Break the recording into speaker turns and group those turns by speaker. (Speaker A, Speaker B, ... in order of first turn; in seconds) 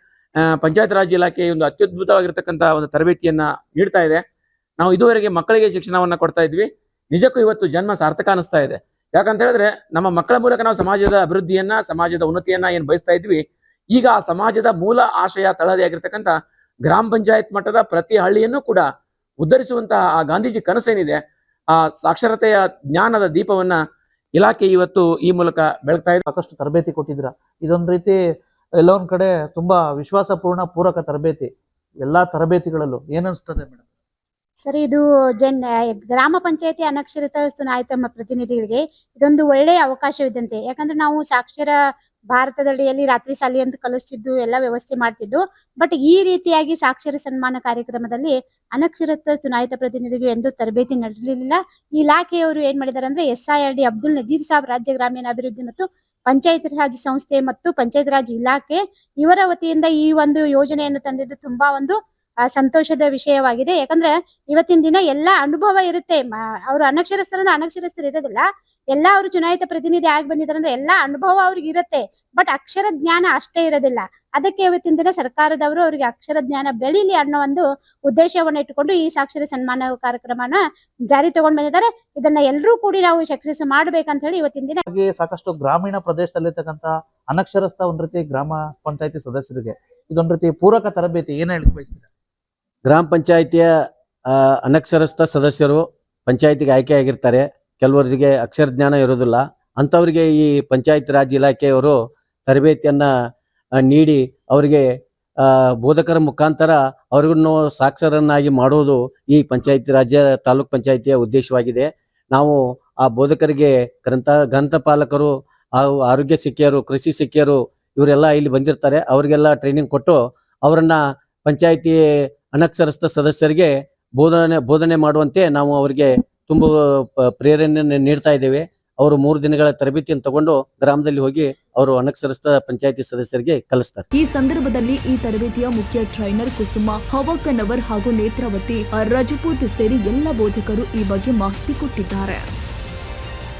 Speaker A: 0.5-4.2, 4.8-13.4, 13.9-16.3, 16.9-18.9, 19.4-21.2, 21.8-23.8, 24.3-26.2
Speaker B: 26.2-28.2, 28.8-31.5, 32.0-33.8, 84.9-92.1
Speaker C: 34.6-41.7, 42.3-62.0, 62.5-80.6, 81.1-84.8
Speaker D: 92.8-93.7, 94.3-103.1, 103.8-104.8, 105.4-134.1
Speaker E: 134.1-142.4